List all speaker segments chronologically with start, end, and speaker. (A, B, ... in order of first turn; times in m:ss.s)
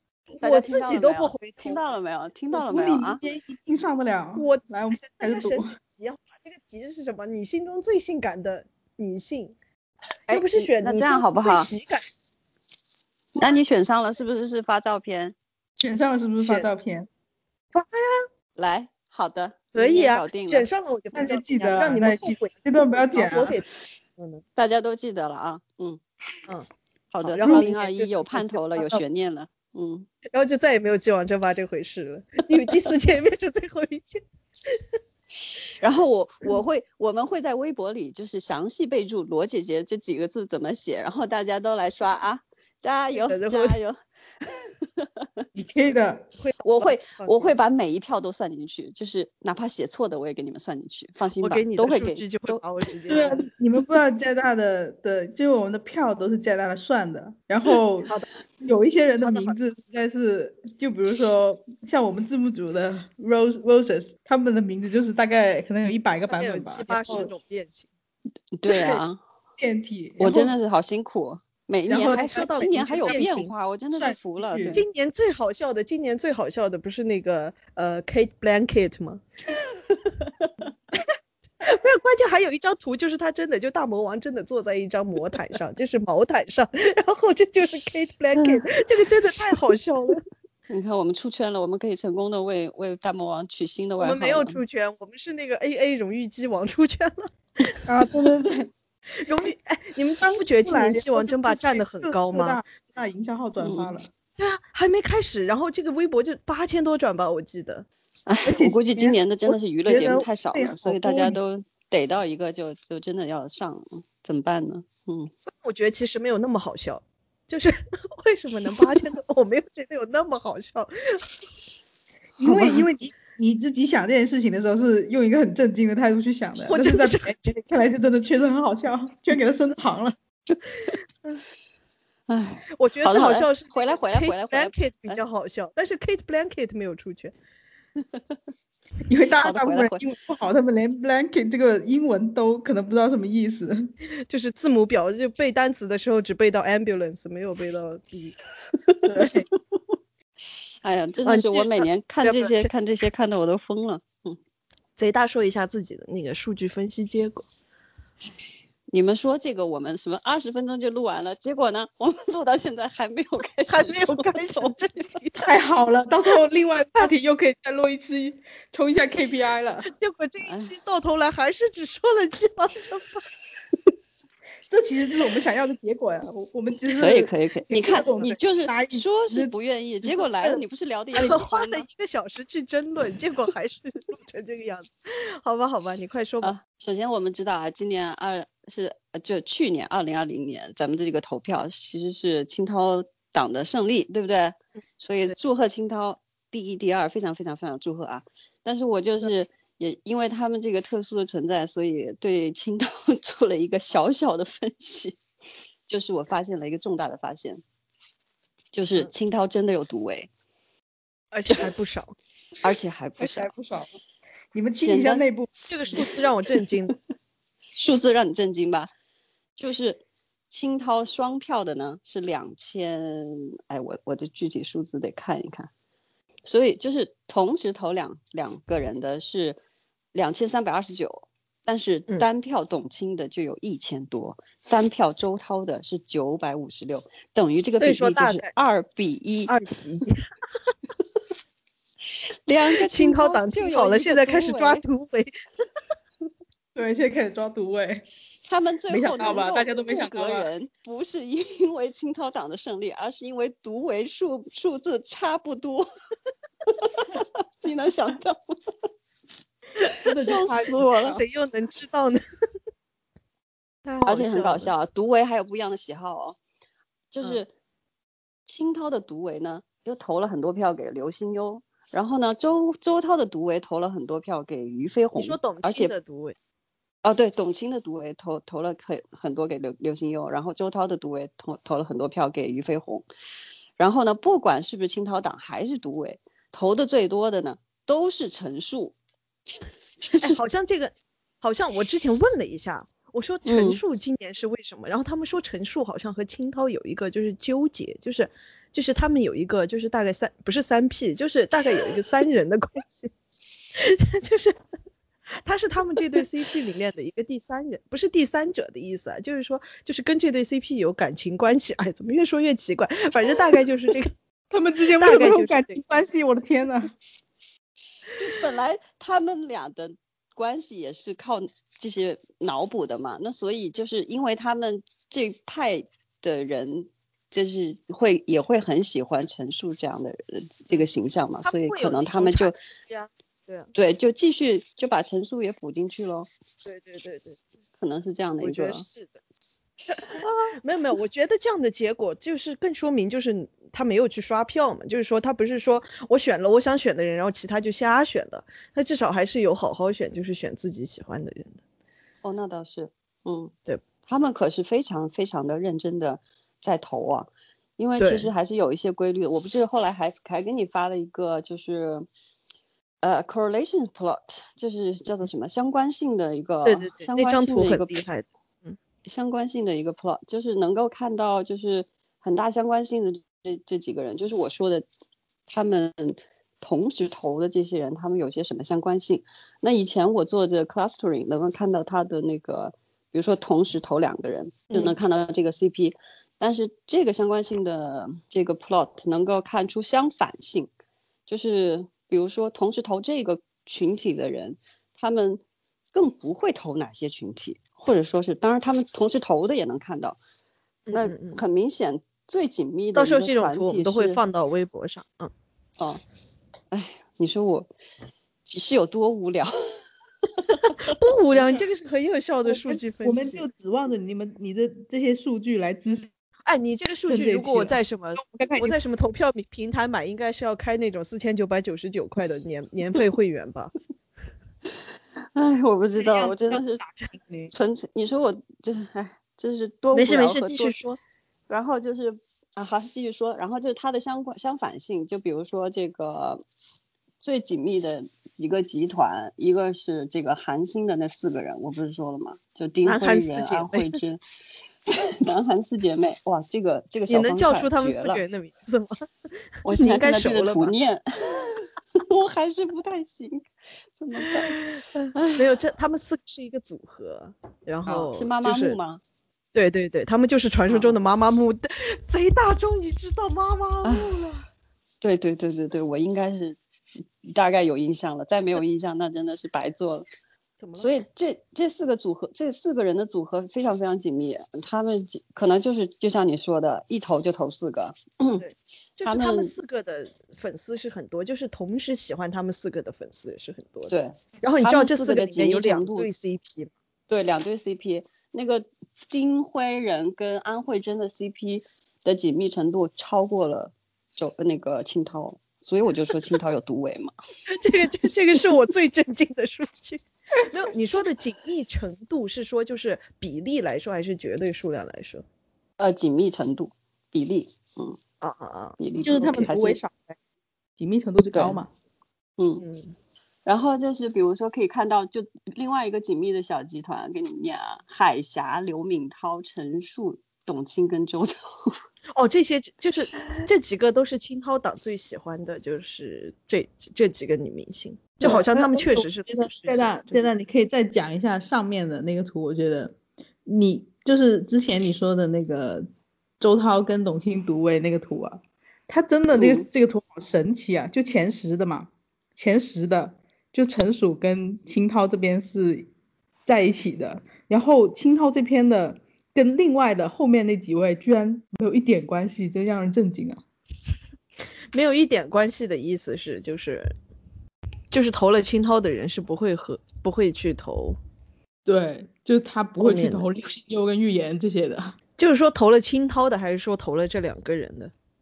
0:00.3-0:01.8 A
0:00.4-0:03.2 B
0:02.5-0:05.7 C
0:04.4-0:04.6 A
0:05.2-0:09.5 A
0:10.3-0:11.7 B
0:10.3-0:12.0 A
0:13.4-0:15.3 B
0:15.8-0:17.1 C
0:16.4-0:16.7 A
0:17.7-0:18.2 A
0:18.6-0:20.7 B
0:19.7-0:22.5 A
0:21.1-0:23.6 C
0:23.1-0:24.4 A
0:24.6-0:26.0 B
0:26.5-0:29.0 A
0:27.2-0:30.1 B
0:30.3-0:35.0 A
0:35.8-0:45.4 B
0:43.1-0:43.8 A
0:45.5-0:46.2 C
0:46.4-0:47.5 A
0:46.6-0:52.6 B
0:51.4-0:53.4 A
0:53.1-0:58.1 C
0:58.6-1:07.3 C
0:59.2-0:59.6 A
1:06.3-1:07.9 A
1:08.5-1:09.2 B
1:09.6-1:10.5 C
1:10.2-1:14.8 B
1:11.9-1:13.2 C
1:12.1-1:13.5 A
1:13.9-1:14.8 C
1:14.7-1:19.2 A
1:21.6-1:30.2 A
1:30.7-1:34.6 B
1:34.0-1:37.8 A
1:37.8-1:38.7 C
1:39.2-1:42.6 A
1:40.4-1:44.1 C
1:43.6-1:43.9 B
1:44.4-1:47.9 A
1:48.2-1:55.3 B
1:48.4-1:51.4 C
1:55.4-2:01.3 A
2:02.4-2:10.2 C
2:02.4-2:02.8 B
2:06.6-2:07.5 A
2:12.3-2:15.2 B
2:12.7-2:17.3 A
2:19.1-2:23.9 C
2:19.4-2:20.0 B
2:24.3-2:28.3 A
2:29.0-2:29.4 C
2:30.8-2:34.4 B
2:31.2-2:32.7 A
2:35.0-2:37.4 A
2:38.9-2:44.8 B
2:43.7-2:45.5 A
2:45.4-2:49.9 C
2:49.9-2:53.2 A
2:50.4-2:50.7 B
2:54.7-2:59.5 C
2:57.0-3:01.8 B
3:01.1-3:06.5 A
3:06.4-3:25.2 B
3:25.9-3:27.6 B
3:28.7-3:30.3 B
3:31.3-3:32.1 A
3:32.6-3:33.5 B
3:33.2-3:33.9 C
3:34.5-3:35.5 C
3:34.8-3:35.2 B
3:35.7-3:36.9 A
3:37.7-3:38.9 B
3:39.6-3:45.7 B
3:46.4-3:49.6 B
3:50.1-3:59.5 B
3:57.8-3:58.5 A
3:59.5-4:00.2 A
4:02.4-4:04.8 B
4:02.8-4:05.4 A
4:06.7-4:08.0 C
4:08.4-4:15.9 B
4:08.9-4:10.5 C
4:16.7-4:18.6 B
4:20.0-4:21.2 C
4:20.2-4:21.2 B
4:21.0-4:22.2 A
4:23.8-4:24.7 A
4:24.0-4:26.4 B
4:27.1-4:27.5 B
4:28.5-4:35.9 B
4:35.1-4:36.4 A
4:37.0-4:43.0 B
4:43.8-4:48.9 B
4:50.0-4:50.4 B
4:50.2-5:03.1 A
4:53.4-4:53.8 B
5:03.7-5:04.6 A
5:05.4-5:14.1 A
5:14.5-5:16.9 C
5:15.0-5:15.8 A
5:18.1-5:32.6 B
5:31.4-5:33.7 A
5:33.7-5:36.3 B
5:36.6-5:37.4 A
5:37.8-5:38.8 B
5:38.4-5:39.2 A
5:39.9-5:51.6 A
5:52.2-5:53.5 B
5:54.0-6:02.0 B
5:58.0-5:58.3 A
6:03.0-6:08.0 B
6:06.6-6:08.8 A
6:09.0-6:14.8 B
6:15.5-6:30.7 B
6:31.3-6:35.4 B
6:35.9-6:40.2 B
6:40.9-6:41.4 A
6:40.9-6:44.2 B
6:42.9-6:45.3 A
6:46.7-6:47.7 B
6:48.4-6:49.8 B
6:50.4-6:50.9 B
6:50.8-6:53.5 A
6:52.4-6:56.1 C
6:56.4-7:03.7 A
6:57.1-6:58.7 C
7:05.3-7:06.8 B
7:06.0-7:07.5 C
7:07.5-7:10.8 B
7:09.9-7:11.0 A
7:11.5-7:16.4 B
7:17.2-7:24.2 B
7:22.8-7:24.0 A
7:24.9-7:28.2 B
7:27.1-7:29.0 A
7:29.6-7:35.5 B
7:29.7-7:30.7 A
7:34.4-7:38.8 A
7:37.8-7:39.0 B
7:39.5-7:44.4 A
7:40.7-7:41.0 B
7:43.8-7:44.3 B
7:45.0-7:46.6 B
7:47.2-7:50.0 B
7:50.6-7:50.9 A
7:50.8-7:58.4 B
7:58.4-8:03.9 A
7:59.0-7:59.5 B
8:03.9-8:06.1 B
8:04.4-8:06.7 A
8:07.1-8:17.1 B
8:17.5-8:25.2 A
8:25.8-8:28.0 B
8:28.2-8:29.5 A
8:28.8-8:29.8 B
8:29.0-8:30.2 C
8:30.8-8:31.7 C
8:31.3-8:31.6 B
8:32.4-8:32.6 B
8:32.6-8:32.9 A
8:33.4-8:41.8 B
8:42.1-8:50.3 A
8:48.2-8:55.9 C
8:56.4-9:05.9 C
8:59.3-8:59.6 B
9:06.4-9:13.4 C
9:14.7-9:16.9 A
9:17.9-9:21.0 A
9:21.6-9:25.0 C
9:22.8-9:23.3 A
9:25.2-9:27.9 A